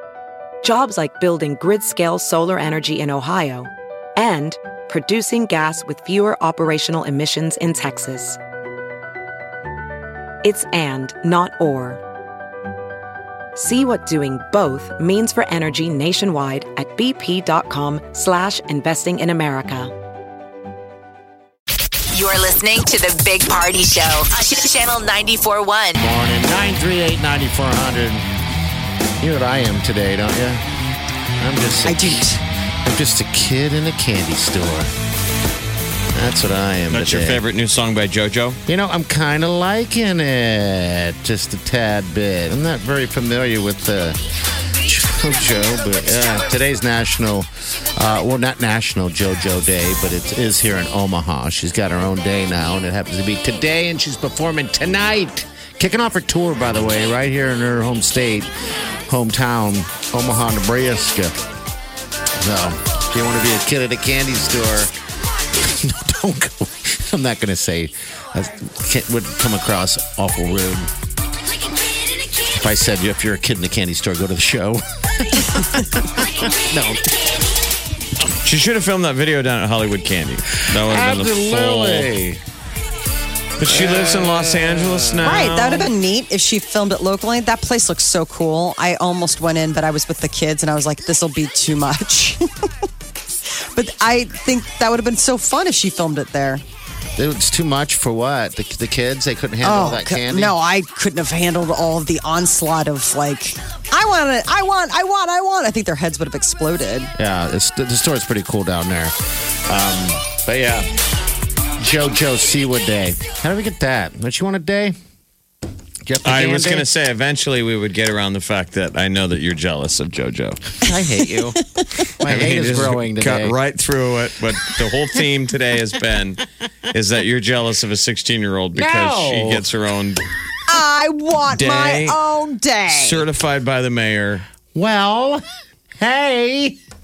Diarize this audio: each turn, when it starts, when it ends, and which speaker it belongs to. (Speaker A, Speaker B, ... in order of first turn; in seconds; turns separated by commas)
Speaker A: 0.6-8.4, Speaker A: 10.4-12.0, Speaker A: 13.6-19.9, Speaker B: 22.1-26.0, Speaker C: 26.0-28.2, Speaker C: 29.2-30.6, Speaker C: 31.4-32.3, Speaker D: 31.9-32.4, Speaker C: 32.9-34.9, Speaker C: 36.1-37.4, Speaker E: 36.9-38.6, Speaker C: 38.7-44.2, Speaker C: 44.7-58.5, Speaker C: 59.1-61.4, Speaker C: 62.4-64.9, Speaker C: 65.6-70.9, Speaker C: 72.5-77.1, Speaker E: 78.4-82.1, Speaker C: 80.7-82.4, Speaker E: 83.6-85.3, Speaker C: 83.6-85.9, Speaker D: 85.2-92.7, Speaker D: 93.7-96.6, Speaker C: 97.2-100.5, Speaker D: 99.6-107.1, Speaker C: 107.2-109.2, Speaker C: 109.7-110.9, Speaker C: 111.8-115.0, Speaker C: 116.1-116.9, Speaker E: 116.2-120.8, Speaker C: 120.8-121.6, Speaker C: 122.2-123.6, Speaker E: 122.2-130.2, Speaker C: 128.7-129.7, Speaker D: 130.7-133.2, Speaker E: 131.5-132.2, Speaker E: 132.9-134.5, Speaker C: 134.7-135.4, Speaker C: 136.0-136.8